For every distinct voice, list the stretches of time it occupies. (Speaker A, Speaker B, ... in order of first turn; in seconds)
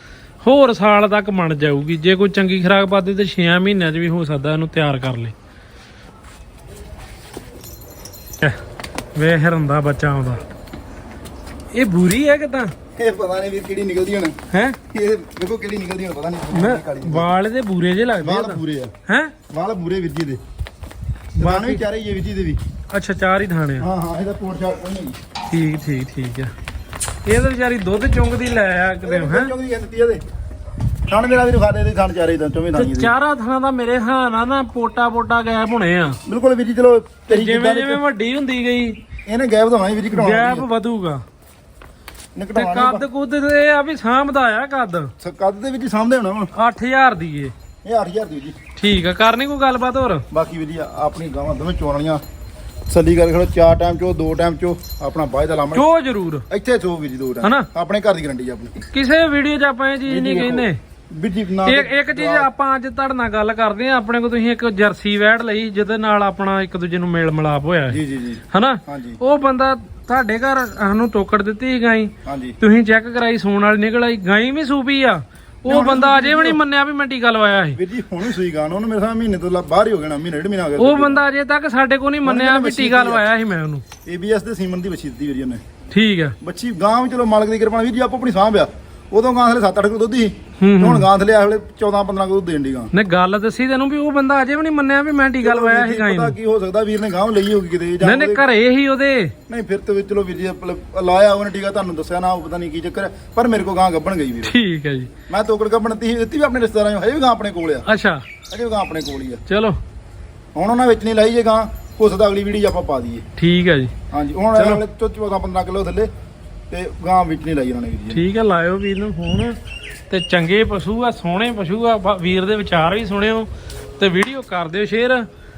Speaker A: 0.4-5.3, 9.1-10.4, 11.7-12.7, 14.5-14.8, 16.5-19.3, 21.4-21.8, 22.9-23.9, 25.5-26.5, 27.2-29.5, 32.7-36.2, 37.3-39.0, 40.1-41.2, 42.5-45.1, 46.5-47.5, 48.8-50.2, 55.7-56.4, 58.9-60.8, 61.6-78.2, 80.8-83.8, 85.9-86.3, 90.6-91.1, 92.9-96.3, 98.0-99.3, 104.4-105.1, 107.8-108.2, 109.5-109.8, 113.4-113.9, 114.5-114.8, 118.1-119.5, 120.1-125.2
Speaker B: 12.9-14.4, 14.9-17.3, 18.2-18.9, 19.5-20.4, 21.4-22.6, 23.8-25.1, 29.0-30.2, 31.1-33.1, 36.2-38.0, 39.3-40.7, 42.3-43.0, 45.2-46.5, 47.8-48.6, 50.3-52.2, 52.9-55.9, 56.5-58.8, 60.0-62.5, 67.9-69.2, 72.2-72.6, 75.7-76.6, 77.7-81.2, 82.2-83.2, 84.0-85.6, 86.4-92.9, 95.4-98.4, 99.5-104.5, 105.3-107.8, 108.5-109.4, 110.5-113.2, 114.1-116.1, 116.7-118.2